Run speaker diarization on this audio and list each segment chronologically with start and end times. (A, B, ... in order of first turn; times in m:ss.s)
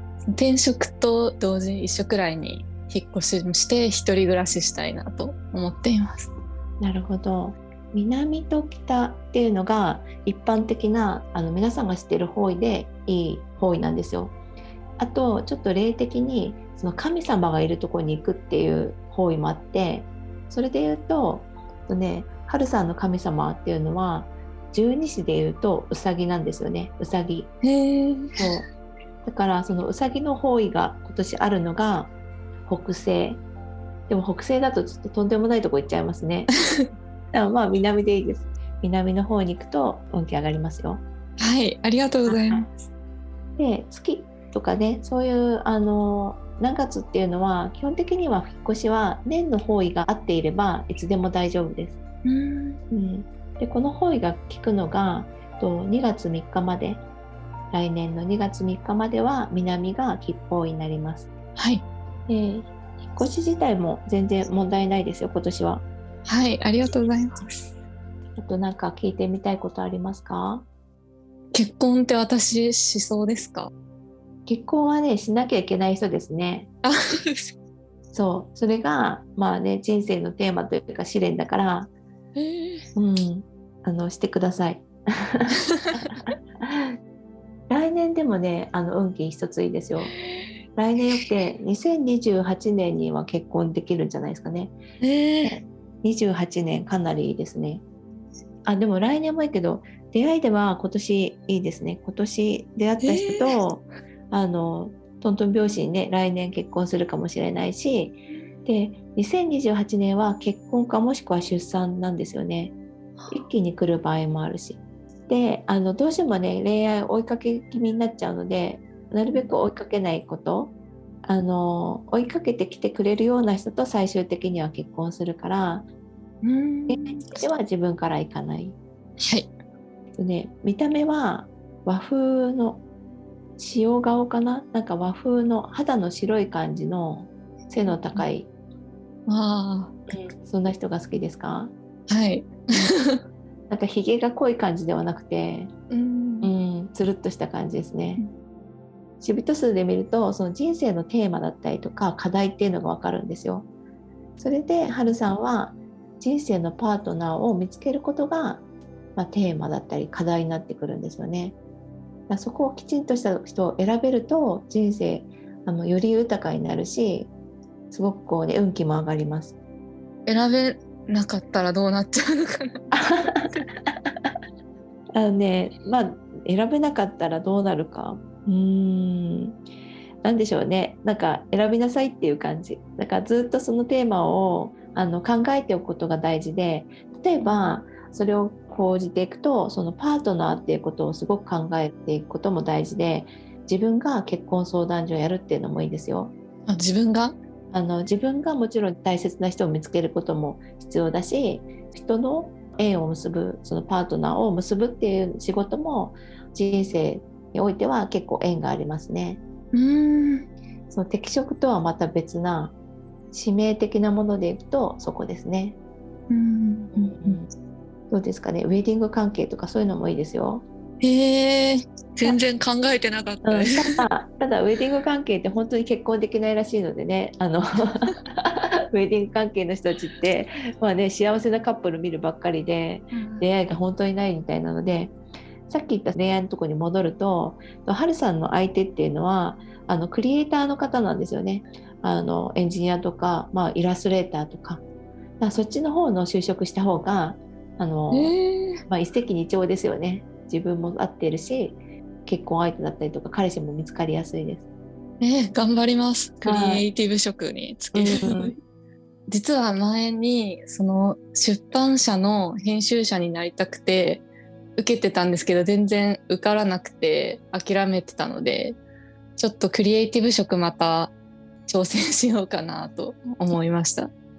0:00.3-0:06.3 A
0:06.8-0:14.4 B
0:15.0-0:27.5 B
0:27.6-0:28.4 A
0:28.4-0:28.7 B
0:29.2-0:32.1 B
0:32.7-0:33.4 B
0:34.1-0:36.5 B
0:37.3-0:41.0 B
0:41.4-0:42.8 A
0:42.3-0:42.6 B
0:43.6-0:52.0 B
0:52.2-0:52.8 A
0:52.9-0:57.0 B
0:57.7-1:01.3 B
1:01.6-1:01.8 A
1:02.3-1:05.8 B
1:06.2-1:07.7 A
1:08.4-1:10.6 B
1:11.5-1:13.7 A
1:14.4-1:16.7 B
1:16.8-1:17.5 A
1:18.1-1:21.9 B
1:22.4-1:22.8 A
1:22.9-1:26.9 B
1:27.7-1:30.1 B
1:30.1-1:30.5 A
1:30.8-1:34.8 B
1:35.0-1:35.5 A
1:35.4-1:37.8 B
1:38.6-1:52.7 B
1:43.0-1:43.4 A
1:53.2-1:53.4 A
1:53.3-2:00.7 B
2:01.2-2:05.8 B
2:06.4-2:07.4 A
2:06.9-2:08.8 B
2:09.2-2:09.5 A
2:10.2-2:12.8 B
2:13.6-2:18.5 B
2:17.9-2:18.2 A
2:19.3-2:20.0 A
2:20.1-2:21.7 B
2:22.1-2:23.2 A
2:23.7-2:25.7 B
2:25.9-2:26.5 A
2:26.4-2:28.2 B
2:29.2-2:33.7 B
2:34.4-2:38.6 B
2:39.1-2:41.6 B
2:42.3-2:47.3 B
2:47.9-2:49.5 B
2:50.2-2:53.6 A
2:52.9-2:53.5 B
2:55.1-2:59.6 B
3:00.2-3:16.3 B
3:16.7-3:17.4 A
3:17.7-3:29.4 B
3:29.7-3:30.5 A
3:30.9-3:32.7 B
3:33.3-3:35.8 B
3:36.3-3:37.4 A
3:36.9-3:37.5 B
3:38.1-3:40.6 B
3:41.0-3:44.0 A
3:43.4-3:55.2 B
3:53.1-3:53.5 A
3:55.7-4:04.8 B
4:05.4-4:08.3 B
4:08.1-4:08.8 A
4:08.9-4:14.6 B
4:15.2-4:18.6 A
4:16.4-4:16.8 B
4:17.9-4:18.5 B
4:19.3-4:24.2 A
4:24.8-4:28.8 A
4:29.4-4:31.1 A
4:31.7-4:34.1 A